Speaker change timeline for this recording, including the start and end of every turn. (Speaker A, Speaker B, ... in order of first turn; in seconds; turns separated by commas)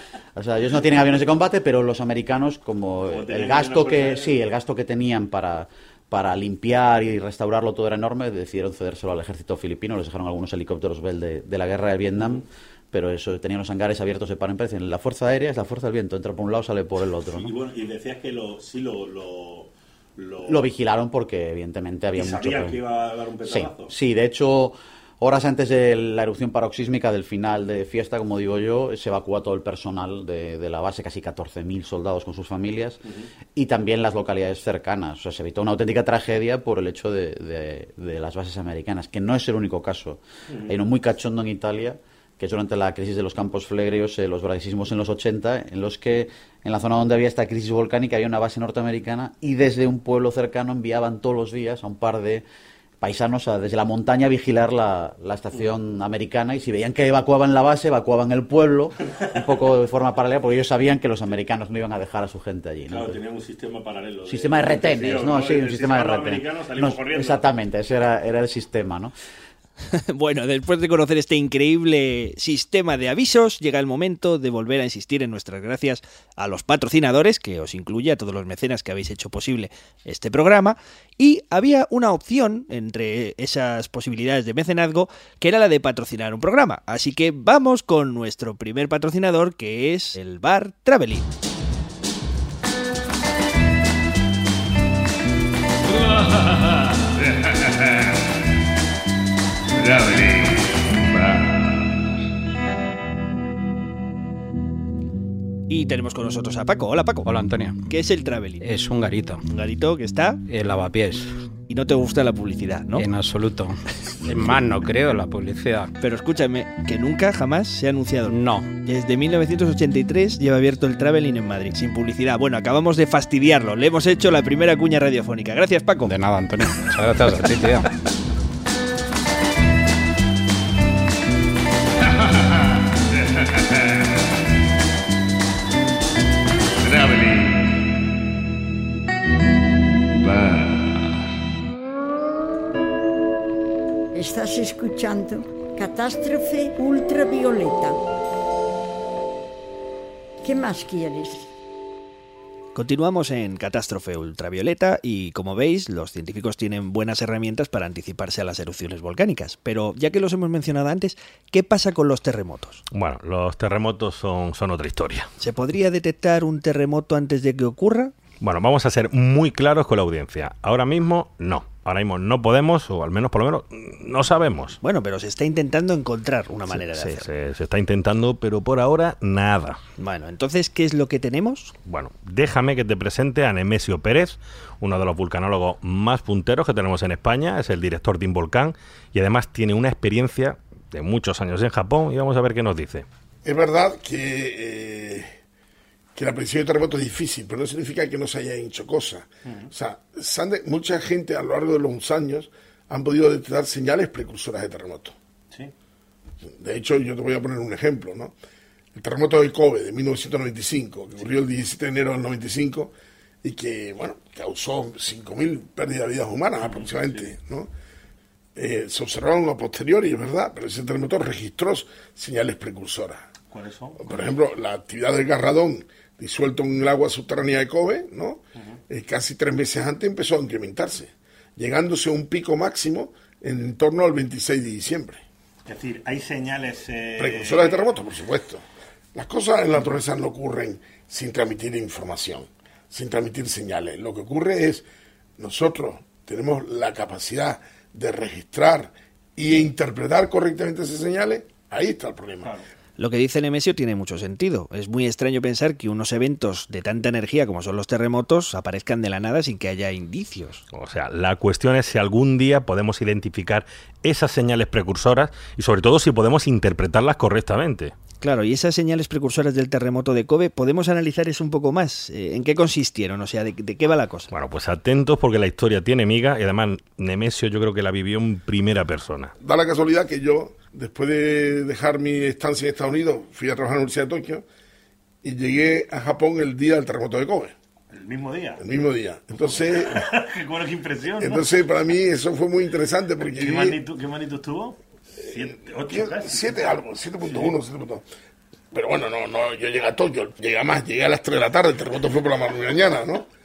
Speaker A: 0.3-17.5, Speaker B: 3.1-4.3, Speaker B: 17.2-20.6, Speaker A: 20.4-22.8, Speaker B: 22.1-23.9, Speaker A: 23.4-33.0, Speaker A: 33.5-52.4, Speaker B: 40.5-40.7, Speaker A: 53.0-63.2, Speaker B: 62.9-67.5, Speaker A: 64.3-69.1, Speaker C: 69.9-91.3, Speaker C: 105.7-107.3, Speaker D: 107.2-107.9, Speaker C: 107.9-108.6, Speaker D: 108.6-109.4, Speaker C: 109.5-110.4, Speaker D: 110.5-111.3, Speaker C: 111.7-113.1, Speaker D: 112.9-115.9, Speaker C: 114.1-114.6, Speaker C: 116.0-126.1, Speaker D: 118.2-118.7, Speaker D: 126.0-127.9, Speaker B: 136.9-137.6, Speaker B: 140.3-140.6, Speaker E: 144.1-148.0, Speaker E: 150.4-151.5, Speaker C: 152.7-162.8, Speaker F: 162.9-165.3, Speaker C: 165.4-168.1, Speaker F: 168.4-174.8, Speaker C: 174.8-177.3, Speaker F: 176.7-179.8, Speaker C: 180.0-181.7, Speaker F: 181.8-193.1, Speaker G: 193.4-195.3, Speaker G: 196.1-205.1, Speaker B: 199.4-199.7, Speaker G: 206.4-208.3, Speaker G: 208.9-212.9, Speaker G: 213.4-217.7, Speaker B: 216.6-217.3, Speaker G: 218.5-223.3, Speaker B: 223.5-224.4, Speaker G: 224.0-235.2, Speaker B: 235.7-237.9, Speaker G: 237.2-238.6, Speaker G: 239.1-244.8, Speaker G: 245.4-252.5, Speaker C: 253.0-260.6, Speaker F: 260.7-267.9, Speaker C: 268.2-274.3, Speaker F: 274.3-279.3, Speaker G: 279.4-284.4, Speaker G: 285.2-287.5, Speaker B: 287.9-288.6, Speaker G: 288.6-290.0, Speaker B: 289.4-291.6, Speaker G: 291.2-293.8, Speaker B: 293.2-296.6, Speaker G: 295.2-298.0, Speaker B: 297.2-297.5, Speaker G: 298.7-303.3